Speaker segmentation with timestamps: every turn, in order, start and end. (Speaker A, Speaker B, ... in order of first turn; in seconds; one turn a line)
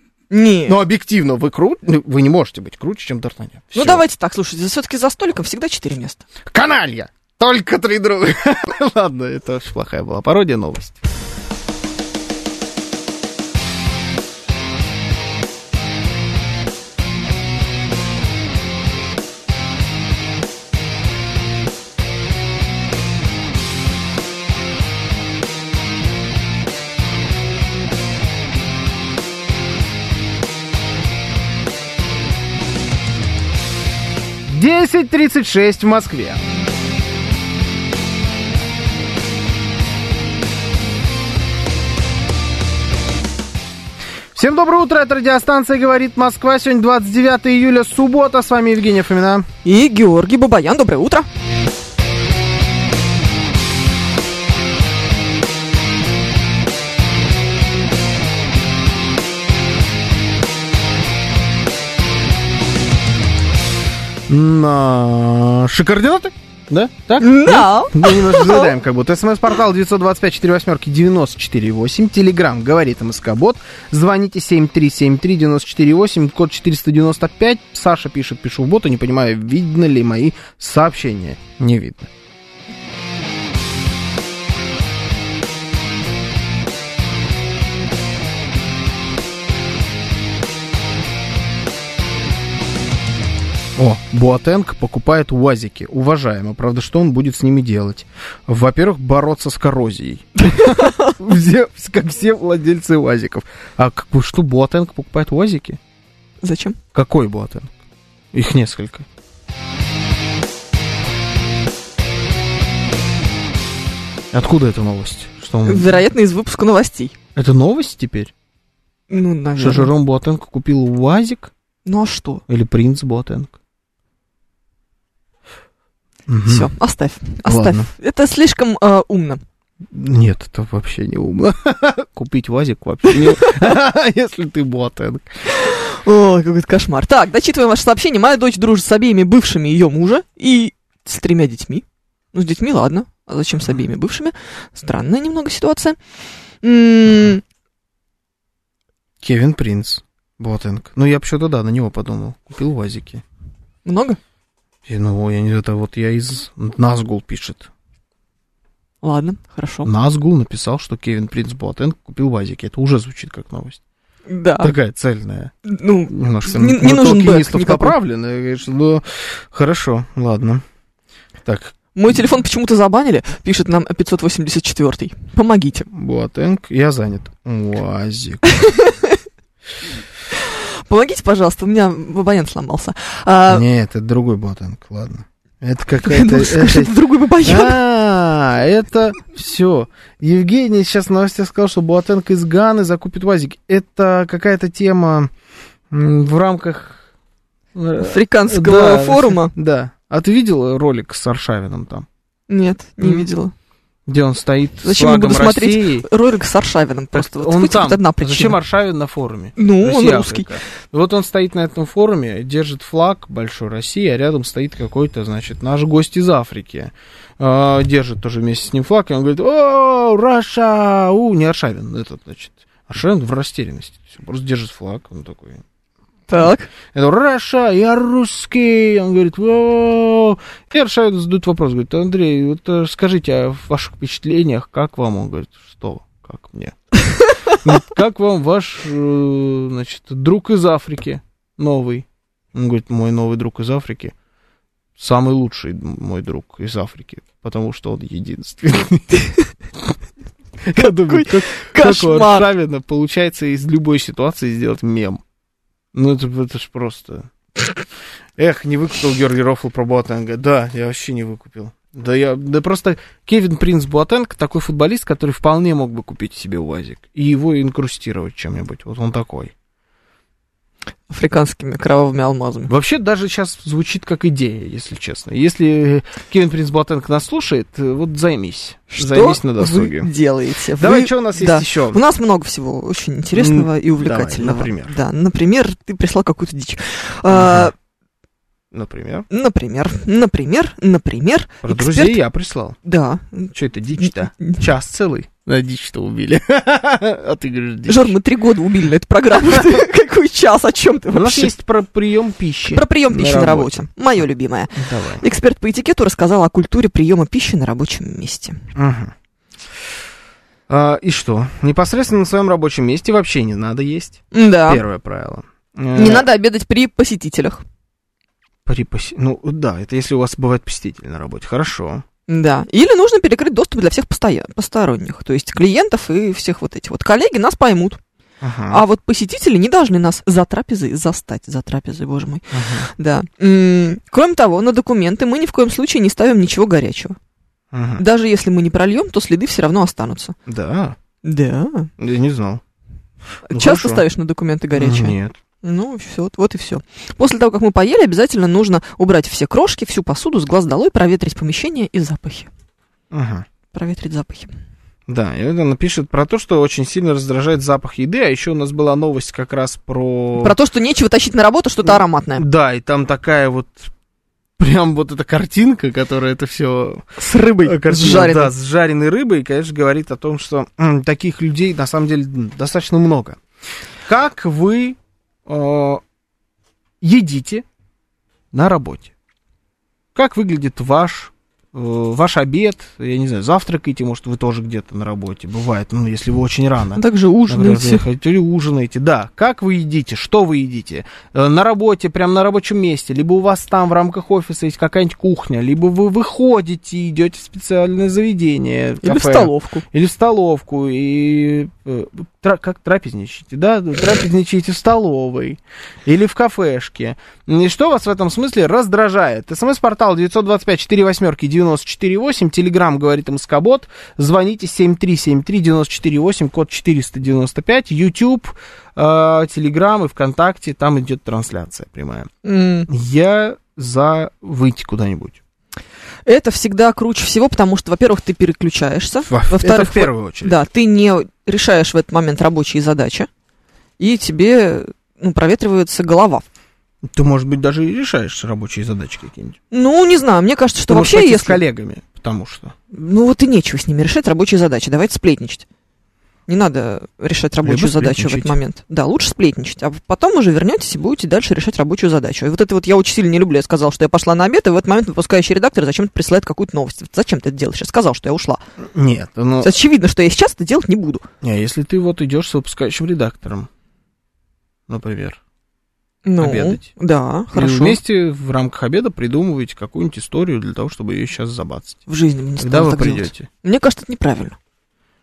Speaker A: 0.3-0.8
Speaker B: 0.7-4.0
Speaker A: 3.7-6.2
Speaker B: 6.5-11.0
Speaker B: 34.5-36.4
Speaker B: 44.4-49.5
Speaker A: 49.6-51.3
Speaker B: 64.3-82.1
Speaker A: 67.2-68.7
Speaker B: 93.8-105.8
Speaker A: 100.5-101.2
Speaker A: 106.4-106.8
Speaker B: 106.9-107.7
Speaker B: 108.3-109.1
Speaker B: 114.3-116.0
Speaker A: 115.7-117.2
Speaker B: 117.3-118.3
Speaker A: 119.1-119.9
Speaker B: 119.6-121.5
Speaker A: 121.8-122.4
Speaker B: 122.5-123.5
Speaker B: 126.3-126.7
Speaker A: 126.5-129.4
Speaker B: 127.5-127.9
Speaker B: 129.9-135.4
Speaker A: 133.1-133.5
Speaker A: 135.5-146.0
Speaker A: 146.6-147.4
Speaker B: 149.2-153.2
Speaker A: 153.8-154.2
Speaker B: 154.8-157.7
Speaker A: 159.0-159.9
Speaker B: 159.8-163.8
Speaker A: 164.3-164.7
Speaker B: 164.6-165.5
Speaker A: 165.7-168.0
Speaker B: 166.1-170.6
Speaker B: 171.4-171.7
Speaker A: 171.9-175.9
Speaker B: 175.9-178.4
Speaker A: 178.5-179.2
Speaker A: 180.3-183.7
Speaker B: 183.5-195.3
Speaker A: 186.0-187.8
Speaker B: 195.9-197.1
Speaker B: 197.7-202.1
Speaker A: 198.0-199.5
Speaker A: 202.5-203.5
Speaker B: 203.0-203.3
Speaker B: 204.1-206.1
Speaker A: 204.8-208.6
Speaker B: 207.1-225.6
Speaker A: 209.6-210.6
Speaker A: 226.3-226.7
Speaker B: 226.9-236.8
Speaker B: 237.5-244.1
Speaker B: 245.0-249.3
Speaker B: 250.7-255.2
Speaker A: 250.8-252.5
Speaker B: 255.9-257.3
Speaker B: 258.4-269.5
Speaker A: 271.1-272.7
Speaker B: 272.7-280.1
Speaker A: 278.9-287.7
Speaker B: 280.8-282.0
Speaker B: 283.3-285.0
Speaker B: 287.3-287.7
Speaker B: 288.7-289.3
Speaker A: 289.3-292.2
Speaker B: 291.6-292.8
Speaker A: 292.8-294.6
Speaker B: 293.5-298.2
Speaker A: 297.9-301.5
Speaker B: 299.5-299.7
Speaker B: 301.1-303.9
Speaker A: 302.7-308.6
Speaker B: 304.7-305.2
Speaker B: 308.8-309.1
Speaker B: 310.7-316.3
Speaker A: 314.3-314.8
Speaker A: 315.9-317.6
Speaker B: 318.6-322.0
Speaker A: 322.3-328.0
Speaker B: 328.4-328.8
Speaker A: 328.7-337.2
Speaker B: 332.5-332.9
Speaker B: 337.7-338.0
Speaker A: 338.0-340.4
Speaker B: 340.5-341.0
Speaker A: 341.2-341.9
Speaker B: 342.0-342.6
Speaker A: 343.5-352.5
Speaker B: 343.5-344.1
Speaker B: 344.7-345.4
Speaker B: 353.1-353.5
Speaker A: 353.7-354.5
Speaker B: 355.1-360.6
Speaker A: 360.4-362.4
Speaker B: 361.9-363.9
Speaker B: 364.6-373.4
Speaker A: 367.2-368.5
Speaker B: 374.1-376.0
Speaker B: 377.0-377.6
Speaker B: 378.5-379.1
Speaker B: 380.1-422.3
Speaker A: 387.0-388.1
Speaker A: 399.0-399.8
Speaker A: 422.4-422.9
Speaker B: 422.9-425.4
Speaker A: 426.3-433.3
Speaker B: 429.3-430.6
Speaker A: 434.0-436.4
Speaker B: 437.0-439.6
Speaker A: 439.7-441.6
Speaker B: 440.9-442.8
Speaker A: 442.9-445.6
Speaker A: 446.5-458.6
Speaker B: 447.6-448.6
Speaker B: 458.8-459.7
Speaker A: 459.6-461.2
Speaker B: 461.4-463.7
Speaker B: 464.9-465.4
Speaker A: 466.2-468.0
Speaker B: 466.4-466.9
Speaker B: 467.5-472.0
Speaker A: 472.1-474.6
Speaker B: 472.6-473.5